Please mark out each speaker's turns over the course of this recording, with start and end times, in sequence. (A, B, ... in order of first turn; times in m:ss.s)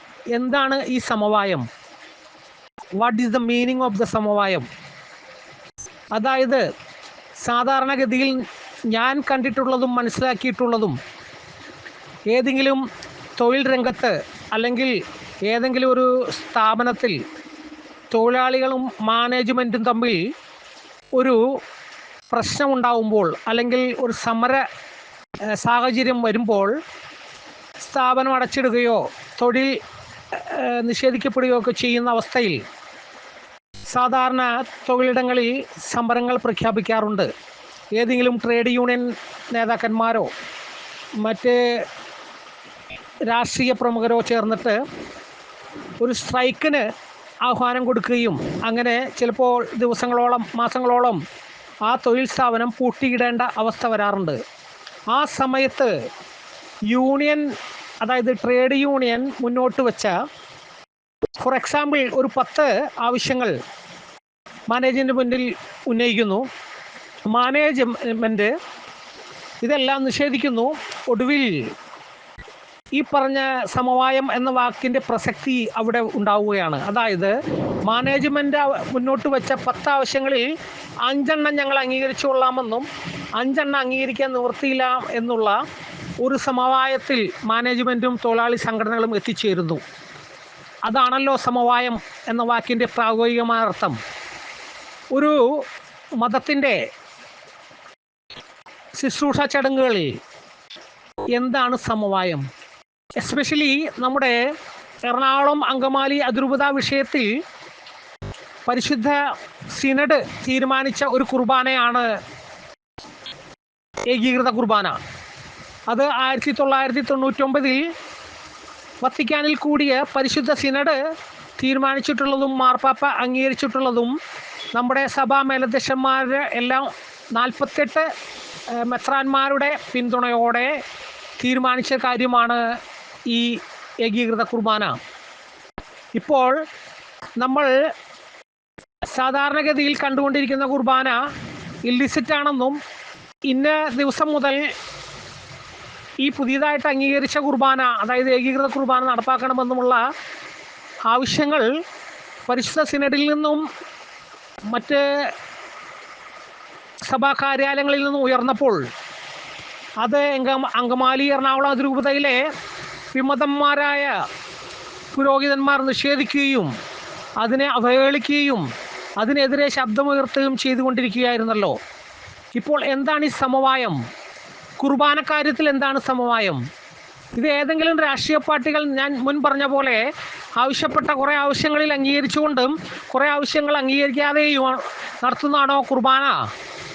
0:00.3-0:01.6 A
0:03.0-0:04.7 A
0:06.1-0:06.6 A
0:07.4-0:11.0 A
0:12.3-0:12.8 A
0:13.4-0:17.2 A
0:18.1-0:20.3 A
0:21.2-0:21.4 A
0:22.3-0:24.6 A
0:25.5-0:26.7 A
0:27.8-0:29.7 A
0:30.3-0:32.6 A
0:33.9-0:37.3 A
0:37.9-0:40.3 A
0:41.2-0:41.8 A
0:43.3-0:44.8 A
0:46.0-0:46.8 A
0:47.4-0:51.2 A
0:51.8-0:54.4 A
0:55.1-0:55.9 A
0:56.9-0:57.5 A
0:58.0-1:00.2 A
1:01.4-1:03.6 A
1:04.7-1:06.4 A
1:07.3-1:08.5 A
1:09.6-1:11.7 A
1:13.0-1:17.3 A
1:17.8-1:20.5 A
1:21.0-1:25.6 A
1:26.2-1:29.8 A
1:30.8-1:34.0 A
1:35.1-1:35.6 A
1:36.2-1:36.8 A
1:39.0-1:40.1 A
1:41.3-1:42.4 A
1:43.2-1:44.4 A
1:45.0-1:47.3 A
1:48.6-1:52.2 A
1:54.1-1:55.0 A
1:55.9-1:57.9 A
1:59.0-2:01.0 A
2:01.6-2:04.2 A
2:04.7-2:08.1 A
2:08.7-2:10.8 A
2:11.4-2:15.0 A
2:16.1-2:16.6 A
2:17.4-2:17.9 A
2:19.1-2:21.2 A
2:21.8-2:22.8 A
2:23.5-2:24.7 A
2:26.2-2:30.0 A
2:31.1-2:31.7 A
2:32.5-2:33.6 A
2:34.7-2:35.3 A
2:37.1-2:38.8 A
2:40.0-2:42.4 A
2:43.1-2:44.2 A
2:45.1-2:46.7 A
2:47.4-2:48.7 A
2:49.2-2:51.8 A
2:52.5-2:54.0 A
2:54.8-2:56.6 A
2:57.3-3:00.1 A
3:00.6-3:06.5 A